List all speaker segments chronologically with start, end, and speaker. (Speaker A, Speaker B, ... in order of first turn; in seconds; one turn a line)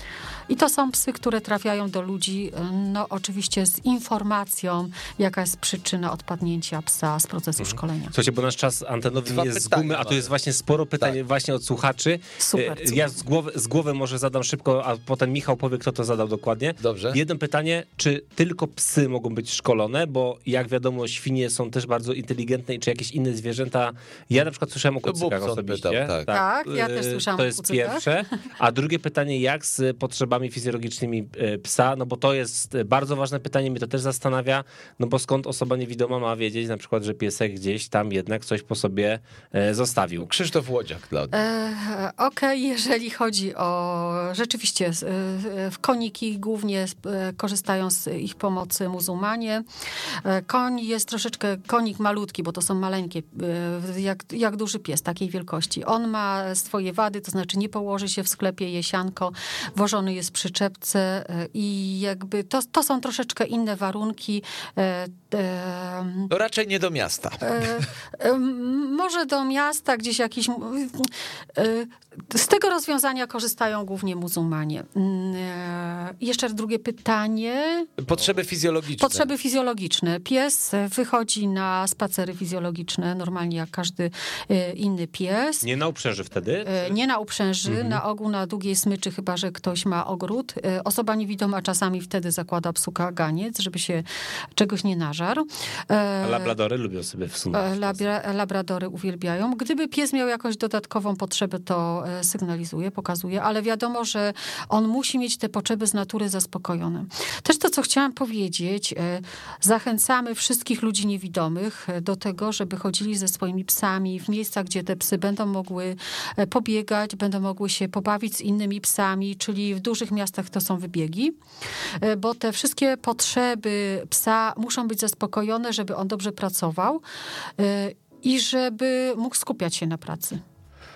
Speaker A: 0.5-8.1
Speaker B: 7.7-40.3
Speaker C: 9.3-10.3
Speaker A: 12.4-13.2
Speaker C: 16.8-17.2
Speaker C: 25.1-26.3
Speaker A: 26.3-28.1
Speaker C: 40.2-41.3
Speaker A: 41.3-49.6
Speaker A: 50.2-66.3
Speaker C: 66.3-67.8
Speaker A: 67.4-77.9
Speaker C: 78.0-79.3
Speaker A: 79.0-85.7
Speaker B: 85.6-86.9
Speaker A: 86.7-96.5
Speaker B: 87.7-88.0
Speaker B: 96.2-98.0
Speaker A: 97.5-121.4
Speaker A: 122.0-127.0
Speaker A: 127.6-130.4